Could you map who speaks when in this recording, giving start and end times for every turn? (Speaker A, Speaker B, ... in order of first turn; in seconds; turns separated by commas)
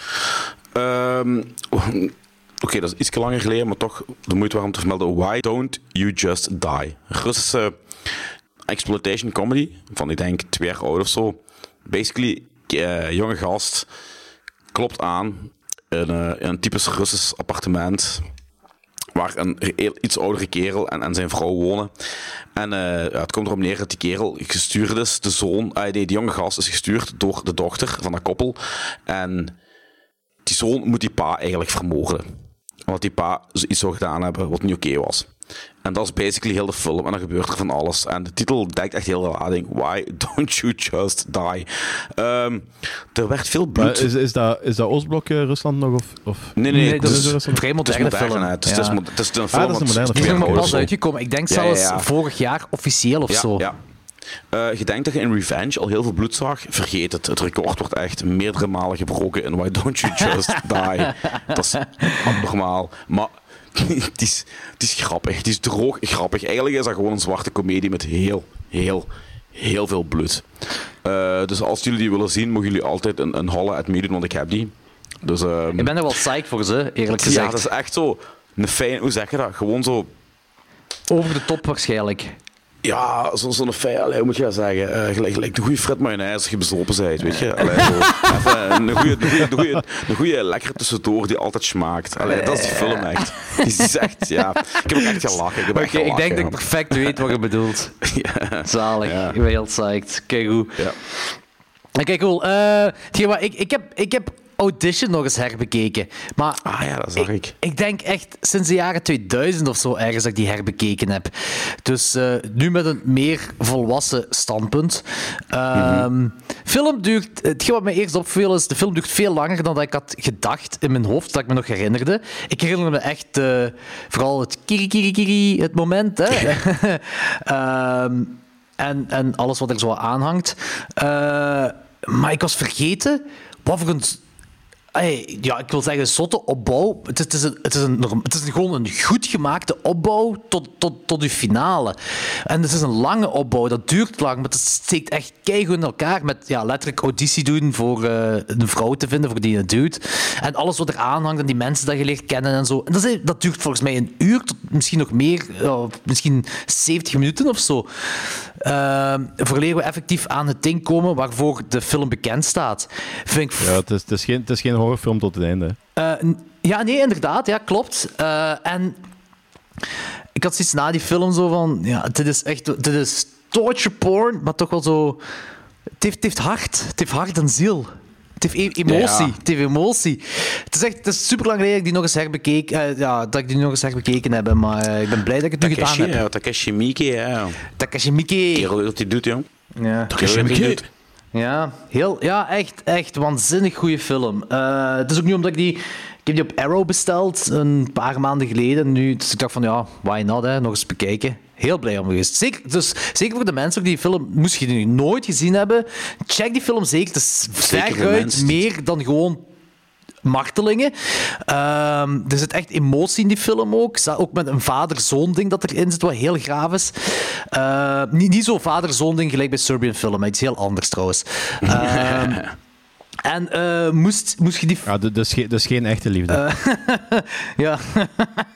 Speaker A: 0.8-7.8, Speaker A: 8.7-13.9, Speaker A: 14.7-18.2, Speaker A: 19.1-21.9, Speaker A: 22.6-29.6, Speaker A: 30.4-32.2, Speaker A: 32.9-35.3, Speaker A: 35.9-44.1, Speaker B: 43.8-47.7, Speaker A: 46.6-50.9, Speaker C: 46.7-49.0, Speaker B: 49.5-50.9, Speaker C: 50.2-53.6, Speaker A: 51.5-52.1, Speaker A: 53.3-53.8, Speaker A: 54.5-70.5, Speaker A: 71.0-74.7, Speaker A: 75.2-76.1, Speaker C: 75.8-77.6, Speaker A: 77.2-80.1, Speaker C: 81.1-82.3, Speaker A: 82.8-97.3, Speaker C: 87.8-88.2, Speaker C: 92.4-92.9, Speaker C: 95.8-97.9, Speaker A: 98.0-99.4, Speaker C: 98.7-100.7, Speaker C: 102.0-106.6, Speaker A: 106.6-107.6, Speaker C: 107.6-111.3, Speaker C: 111.8-115.0, Speaker C: 115.5-134.2, Speaker A: 115.7-116.1, Speaker C: 134.9-141.9, Speaker C: 142.5-157.9, Speaker C: 158.7-163.7, Speaker B: 163.6-165.8, Speaker C: 166.0-168.9, Speaker C: 170.4-175.2, Speaker C: 176.0-177.9, Speaker C: 178.4-180.2, Speaker A: 178.8-179.4, Speaker C: 180.7-186.2, Speaker A: 185.6-187.7, Speaker C: 187.8-188.6, Speaker A: 188.5-189.5, Speaker C: 189.8-190.1, Speaker A: 190.1-190.9, Speaker B: 190.2-190.8, Speaker C: 191.3-209.4, Speaker A: 207.6-208.6, Speaker C: 210.2-210.9, Speaker C: 211.5-222.4, Speaker A: 221.7-222.5, Speaker C: 223.3-224.8, Speaker B: 224.9-226.4, Speaker C: 226.3-228.4